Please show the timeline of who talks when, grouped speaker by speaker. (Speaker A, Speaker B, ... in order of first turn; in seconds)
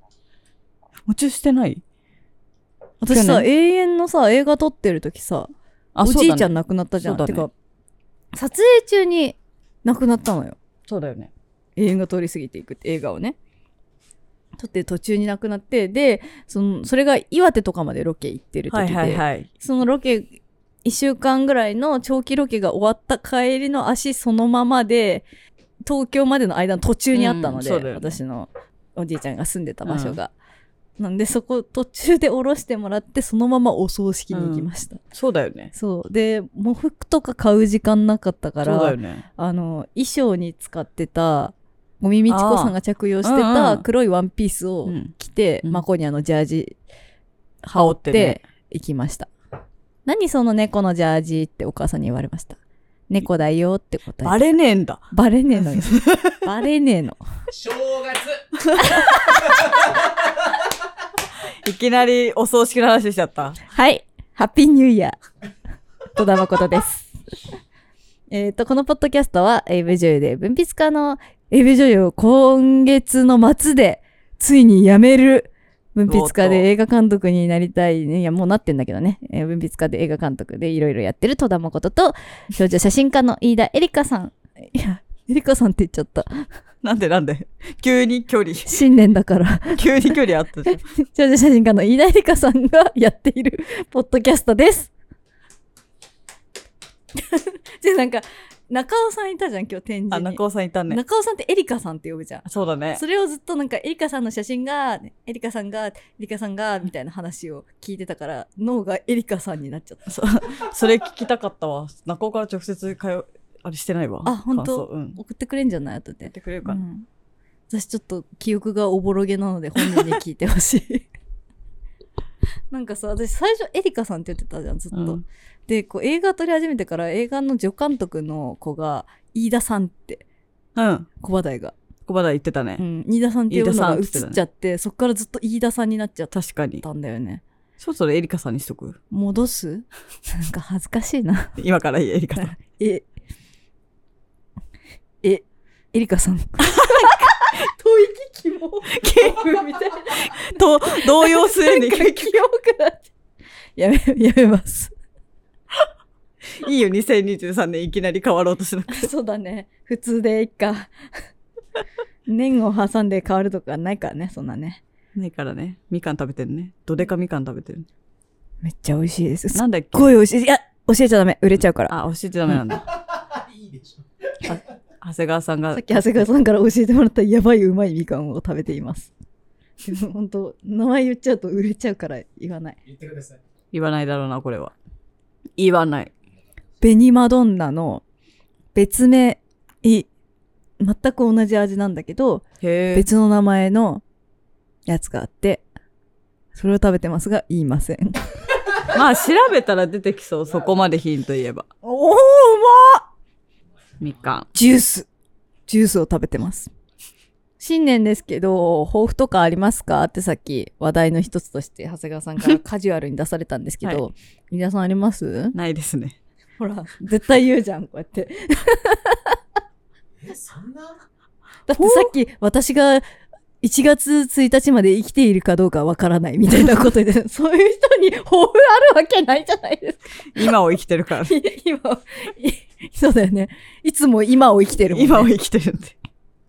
Speaker A: 1.1-1.8, 3.1-3.5, 6.0-7.5, 10.9-11.3, 18.7-19.5, 27.1-28.2, 29.8-30.2, 34.3-35.7, 38.6-39.2, 42.3-43.8, 44.9-45.8, 47.8-48.4, 54.2-55.1, 55.8-56.4, 61.6-63.6, 76.1-76.7, 86.8-88.8, 89.7-90.8, 100.1-101.0, 102.5-103.0, 110.1-115.2, 116.2-116.8, 124.9-125.2, 130.8-131.1, 132.1-132.8, 133.5-134.4, 136.3-136.8, 137.8-139.0, 141.6-142.5, 146.6-147.3, 149.0-152.4, 156.6-159.1, 165.2-167.9, 169.5-170.1, 171.9-172.9, 175.0-176.2, 183.7-184.7, 185.6-186.1, 192.6-193.1, 198.9-201.7, 204.0-204.5, 215.5-216.2, 221.8-222.1, 230.3-231.4, 234.9-235.9
Speaker B: 3.0-5.5, 6.0-7.5, 8.3-10.6, 11.8-13.3, 14.6-20.3, 20.8-25.2, 25.9-30.3, 31.0-35.0, 35.7-46.8, 47.6-49.3, 50.1-52.6, 53.1-54.4, 55.1-57.2, 58.8-59.6, 63.7-65.2, 66.1-67.2, 68.3-86.5, 88.7-90.2, 90.7-94.9, 97.2-110.1, 114.2-117.1, 117.7-121.1, 122.7-130.2, 131.2-131.7, 132.8-137.4, 139.1-141.6, 142.4-143.1, 145.2-150.4, 150.9-153.1, 153.8-154.9, 158.9-160.9, 162.3-164.8, 168.6-171.9, 175.7-179.1, 179.8-182.8, 186.8-188.0, 188.8-190.1, 190.8-194.0, 194.9-195.7, 196.5-198.3, 201.8-203.1, 204.5-205.1, 205.7-206.7, 207.6-215.6, 216.6-219.4, 221.7-223.1, 223.6-230.5, 231.2-235.3
Speaker C: 57.5-58.4, 172.8-174.5, 182.8-183.4, 220.2-221.0